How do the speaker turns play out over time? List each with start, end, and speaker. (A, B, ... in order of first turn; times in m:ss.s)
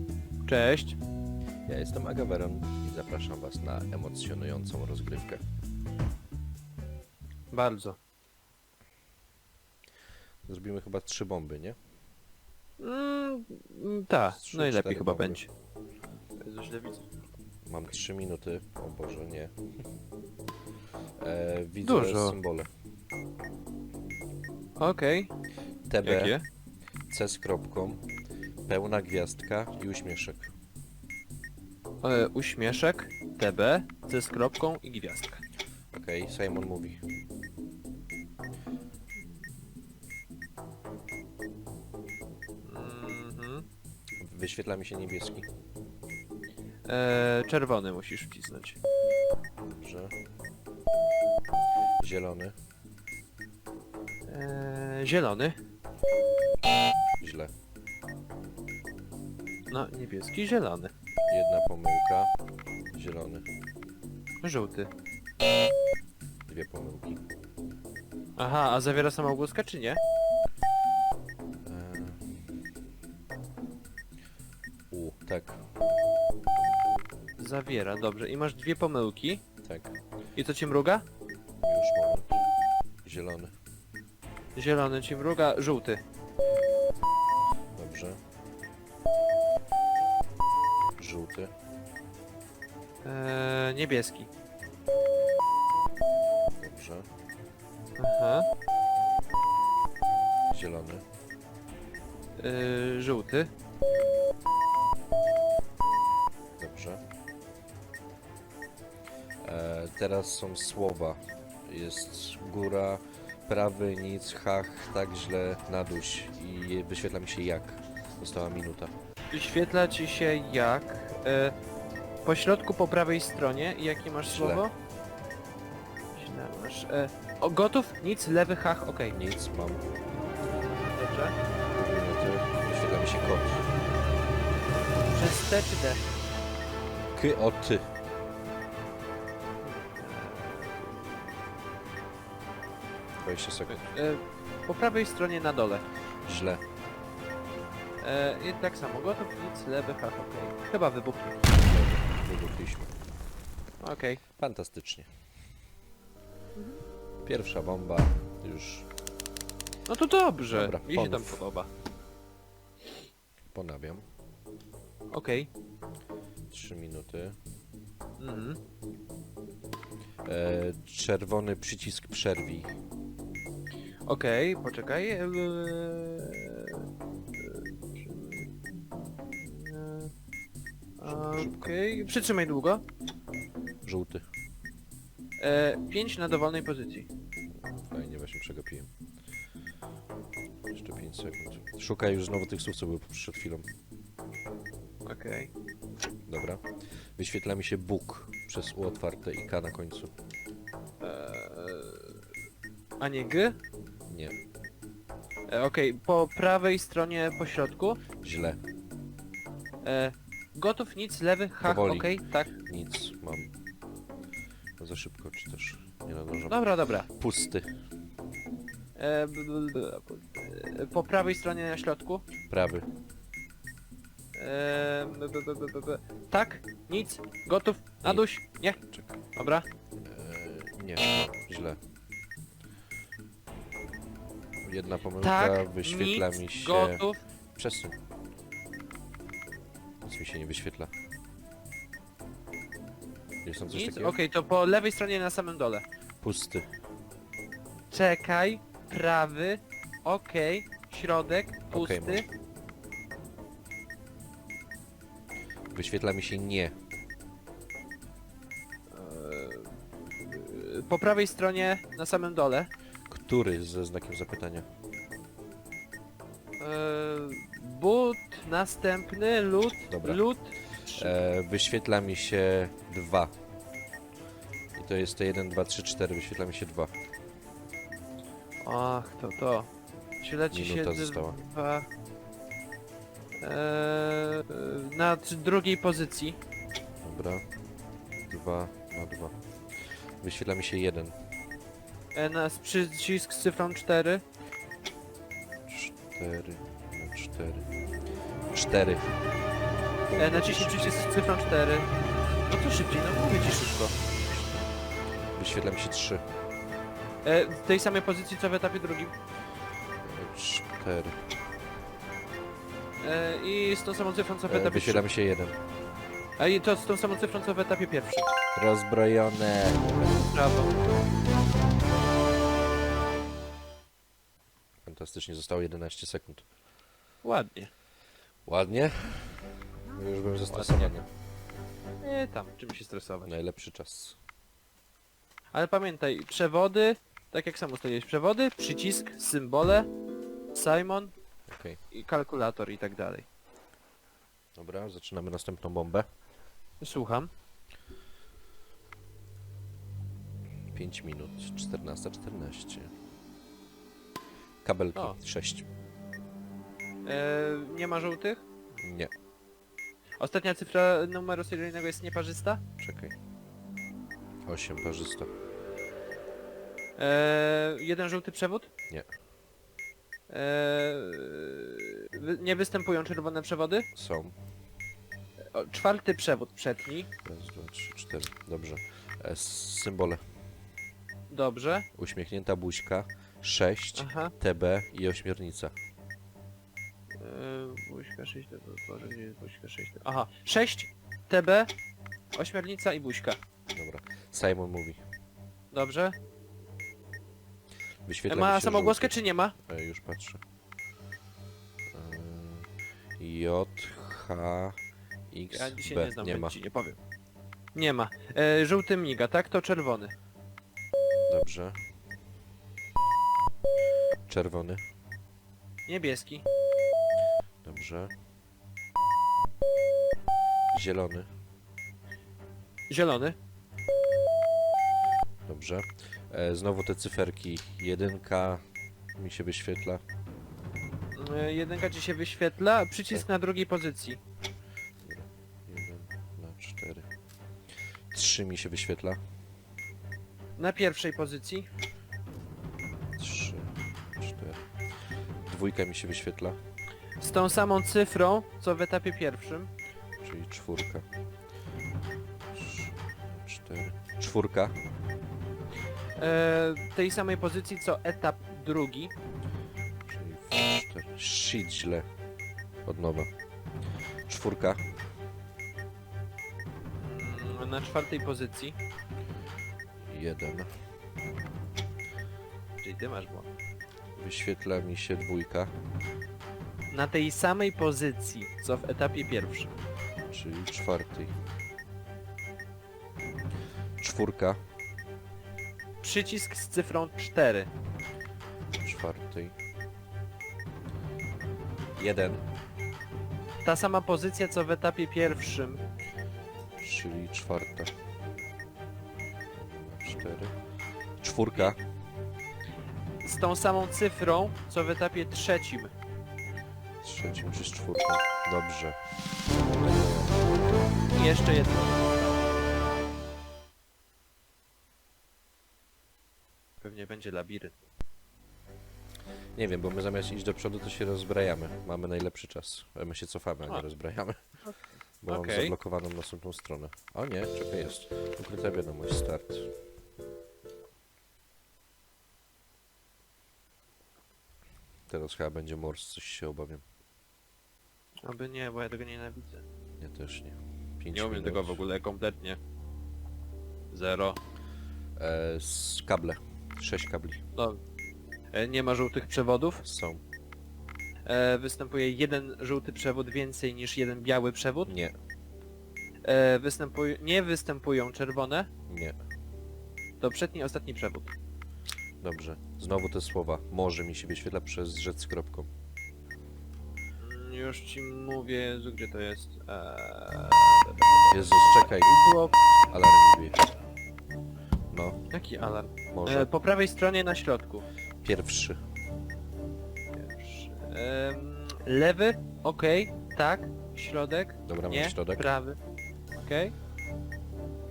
0:00.5-0:01.0 A
0:01.7-0:05.4 B
0:07.5-0:08.0 A
0:10.5-0:11.8 B
0:12.8-0:15.5 A
0:14.3-0:15.4 B
0:16.4-0:17.1 A
0:17.7-0:19.5 B
0:21.2-0:22.7 B
0:21.8-0:22.4 A
0:24.8-0:25.3 A
0:25.9-0:26.4 B
0:26.0-0:26.4 A
0:27.1-0:28.0 B
0:28.7-0:30.5 B
0:32.0-0:35.4 A
0:35.9-0:37.0 B
0:42.6-0:43.7 A
0:44.2-0:45.5 B
0:46.9-0:48.8 A
0:49.6-0:50.1 B
0:52.0-0:52.6 B
0:54.3-0:55.6 A
0:57.2-0:57.5 B
0:59.7-1:00.9 A
1:01.3-1:02.3 B
1:02.9-1:03.4 B
1:04.4-1:04.9 A
1:06.5-1:07.2 B
1:08.4-1:10.0 A
1:11.6-1:12.2 B
1:14.9-1:15.6 B
1:17.4-1:19.4 A
1:19.6-1:20.0 B
1:20.4-1:21.0 A
1:21.6-1:22.4 B
1:23.0-1:23.5 B
1:24.6-1:26.0 A
1:27.8-1:28.2 B
1:31.0-1:31.5 B
1:33.0-1:34.3 A
1:36.6-1:37.1 B
1:38.0-1:38.5 A
1:40.5-1:41.0 B
1:42.4-1:43.5 A
1:46.6-1:47.0 B
1:49.4-1:58.9 B
1:59.3-2:01.6 A
2:02.2-2:04.7 A
2:04.2-2:04.7 B
2:06.2-2:09.2 A
2:09.1-2:09.8 B
2:10.9-2:11.4 A
2:11.8-2:13.7 B
2:15.1-2:16.1 A
2:17.2-2:17.8 B
2:19.6-2:21.6 A
2:23.2-2:23.8 B
2:23.7-2:25.9 A
2:26.3-2:26.6 B
2:28.0-2:31.4 A
2:31.5-2:32.9 B
2:33.8-2:34.2 A
2:34.4-2:35.1 B
2:37.2-2:38.9 B
2:39.9-2:41.7 A
2:40.5-2:41.4 B
2:43.5-2:44.0 B
2:45.1-2:45.5 A
2:46.5-2:47.4 B
2:48.2-2:48.6 A
2:50.2-2:52.8 B
2:54.1-2:56.9 A
2:57.4-2:58.5 A
2:59.4-3:00.1 A
3:01.0-3:02.8 A
3:01.0-3:01.7 B
3:03.9-3:04.2 B
3:05.4-3:07.1 A
3:07.9-3:08.9 B
3:10.7-3:13.7 B
3:15.1-3:15.5 A
3:16.3-3:16.6 B
3:17.2-3:20.1 B
3:21.0-3:22.2 A
3:23.0-3:23.6 A
3:24.1-3:24.4 B
3:25.5-3:28.0 A
3:28.2-3:28.6 B
3:29.8-3:32.5 A
3:31.6-3:33.5 B
3:34.8-3:37.6 B
3:36.5-3:37.1 A
3:39.0-3:42.2 A
3:42.5-3:42.9 B
3:44.4-3:48.8 A
3:48.9-3:49.2 B
3:49.4-3:49.7 A
3:50.0-3:51.8 B
3:54.6-3:57.0 B
3:55.2-3:57.2 A
3:57.6-3:58.0 B
4:00.0-4:00.9 B
4:03.4-4:04.2 B
4:03.7-4:05.8 A
4:06.2-4:06.7 B
4:07.9-4:12.3 A
4:11.7-4:12.2 B
4:15.7-4:16.7 B
4:18.9-4:22.7 A
4:23.1-4:24.7 B
4:26.6-4:31.1 A
4:29.9-4:30.2 B
4:30.8-4:33.3 B
4:34.8-4:36.9 B
4:38.6-4:39.7 A
4:40.2-4:41.9 A
4:40.5-4:41.4 B
4:43.4-4:46.4 A
4:47.0-4:47.4 B
4:48.3-4:51.2 B
4:52.1-4:54.2 A
4:55.7-4:57.7 B
4:58.5-4:59.1 B
5:00.1-5:01.2 B
5:00.2-5:01.9 A
5:02.5-5:04.0 A
5:04.3-5:04.8 B
5:05.4-5:06.2 B
5:07.2-5:09.1 A
5:10.0-5:11.2 B
5:13.0-5:15.1 A
5:14.5-5:15.6 B
5:16.4-5:18.3 A
5:18.6-5:20.0 B
5:20.1-5:20.8 A
5:24.9-5:26.4 B
5:27.2-5:27.7 A
5:28.5-5:31.1 B
5:30.5-5:30.9 A
5:32.0-5:33.3 A
5:33.2-5:34.2 B
5:35.5-5:39.9 A
5:40.5-5:41.1 A
5:41.5-5:41.8 B
5:41.9-5:43.3 A
5:44.6-5:46.1 B
5:46.8-5:47.3 A
5:50.7-5:52.9 B
5:54.6-5:55.6 B
5:57.0-5:58.5 A
5:58.8-5:59.1 B
6:00.2-6:02.6 A
6:02.8-6:03.1 B
6:04.5-6:05.3 B
6:07.0-6:08.7 A
6:10.3-6:13.9 A
6:13.9-6:14.4 B
6:15.5-6:17.1 A
6:17.2-6:20.2 B
6:21.3-6:21.9 A
6:22.0-6:25.7 B
6:24.0-6:24.3 A
6:27.2-6:31.7 A
6:32.3-6:33.4 A
6:33.7-6:35.0 B
6:35.7-6:36.2 A
6:38.1-6:40.4 B
6:38.3-6:39.6 A
6:41.9-6:44.8 B
6:45.3-6:46.6 B
6:45.5-6:47.0 A
6:47.8-6:50.1 A
6:51.3-6:51.8 B
6:54.3-6:54.8 B
6:55.9-6:56.4 A
6:57.6-6:58.1 B
7:00.7-7:01.3 B
7:02.9-7:03.4 A
7:05.5-7:08.6 B
7:09.2-7:10.0 B
7:11.2-7:14.2 A
7:15.0-7:17.1 B
7:18.1-7:19.2 B
7:20.6-7:21.7 A
7:23.2-7:24.7 B
7:25.4-7:26.6 B
7:27.2-7:29.7 A
7:30.2-7:31.1 B
7:32.5-7:34.8 B
7:36.2-7:39.1 A
7:40.1-7:42.1 B
7:42.9-7:43.3 B
7:44.3-7:44.9 B
7:47.0-7:48.8 A
7:50.0-7:50.7 B
7:52.8-7:53.5 A
7:54.2-7:55.7 B
7:56.9-7:59.7 A
8:00.3-8:01.3 B
8:04.0-8:04.6 B
8:06.0-8:07.7 A
8:08.8-8:09.6 B
8:12.0-8:12.4 B
8:13.6-8:15.8 A
8:16.8-8:17.9 B
8:19.5-8:20.6 B
8:21.2-8:21.8 B
8:23.2-8:25.9 A
8:27.0-8:29.0 B
8:29.7-8:30.4 B
8:31.1-8:32.5 A
8:36.8-8:37.8 A
8:39.6-8:44.4 B
8:45.2-8:49.7 B
8:45.3-8:45.7 A
8:55.1-8:56.8 B
8:58.2-8:59.6 A
9:00.0-9:01.8 B
9:01.1-9:02.6 A
9:03.9-9:04.4 A
9:05.2-9:07.4 B
9:07.6-9:07.8 A
9:08.5-9:09.8 A
9:09.8-9:10.2 B
9:11.3-9:14.9 A
9:14.9-9:15.1 B
9:16.2-9:18.7 A
9:18.9-9:19.2 B
9:20.2-9:21.3 A
9:22.2-9:25.7 B
9:27.2-9:32.6 A
9:31.3-9:32.1 B
9:32.9-9:33.7 B
9:34.9-9:35.2 B
9:35.3-9:37.8 A
9:36.1-9:36.5 B
9:38.2-9:38.8 B
9:40.2-9:45.8 A
9:44.7-9:45.5 B
9:46.4-9:46.7 A